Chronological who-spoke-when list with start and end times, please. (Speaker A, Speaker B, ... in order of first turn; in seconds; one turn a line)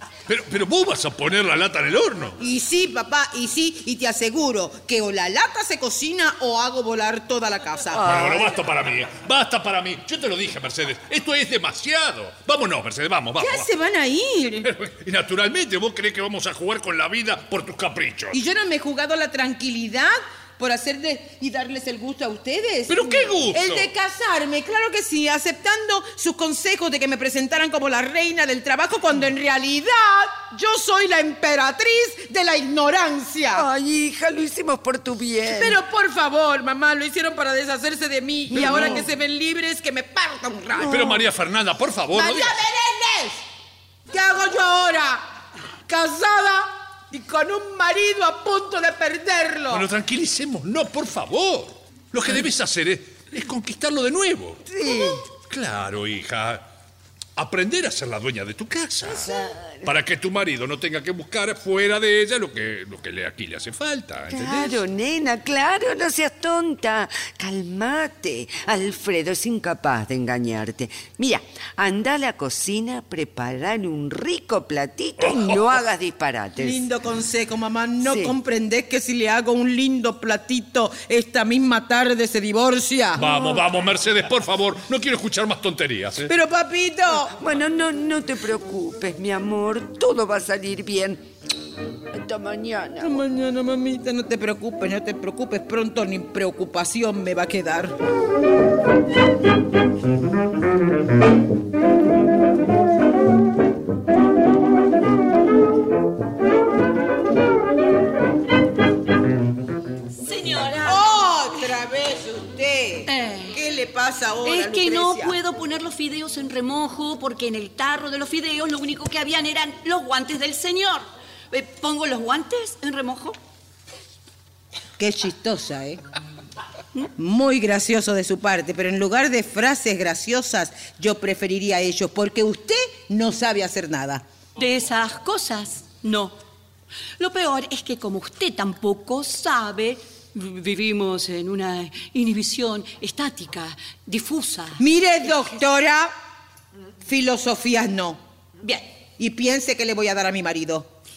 Speaker A: 0.3-2.4
Speaker B: 2.4-8.0
Speaker A: 7.9-13.7
Speaker B: 13.4-14.7
Speaker A: 14.6-18.4
Speaker B: 18.3-33.6
Speaker A: 22.9-23.9
Speaker C: 33.5-35.8
Speaker B: 35.5-41.2
Speaker A: 40.8-42.6
Speaker B: 42.1-43.4
Speaker B: 44.1-45.2
Speaker B: 45.9-49.9
Speaker A: 49.7-56.6
Speaker C: 54.7-55.2
Speaker A: 57.4-64.8
Speaker C: 59.1-59.9
Speaker C: 64.3-76.8
Speaker A: 75.2-75.8
Speaker B: 76.6-83.2
Speaker C: 78.0-78.3
Speaker A: 83.2-86.3
Speaker C: 83.3-83.6
Speaker B: 86.3-87.3
Speaker C: 87.3-91.2
Speaker C: 92.1-93.2
Speaker B: 93.0-97.9
Speaker D: 110.2-111.3
Speaker B: 110.8-115.4
Speaker D: 113.1-113.6
Speaker D: 114.5-123.4
Speaker B: 125.0-126.0
Speaker B: 127.2-134.2
Speaker D: 134.6-136.4
Speaker D: 137.2-144.8
Speaker B: 144.8-146.1
Speaker B: 147.1-148.2
Speaker D: 148.6-148.9
Speaker B: 149.2-150.9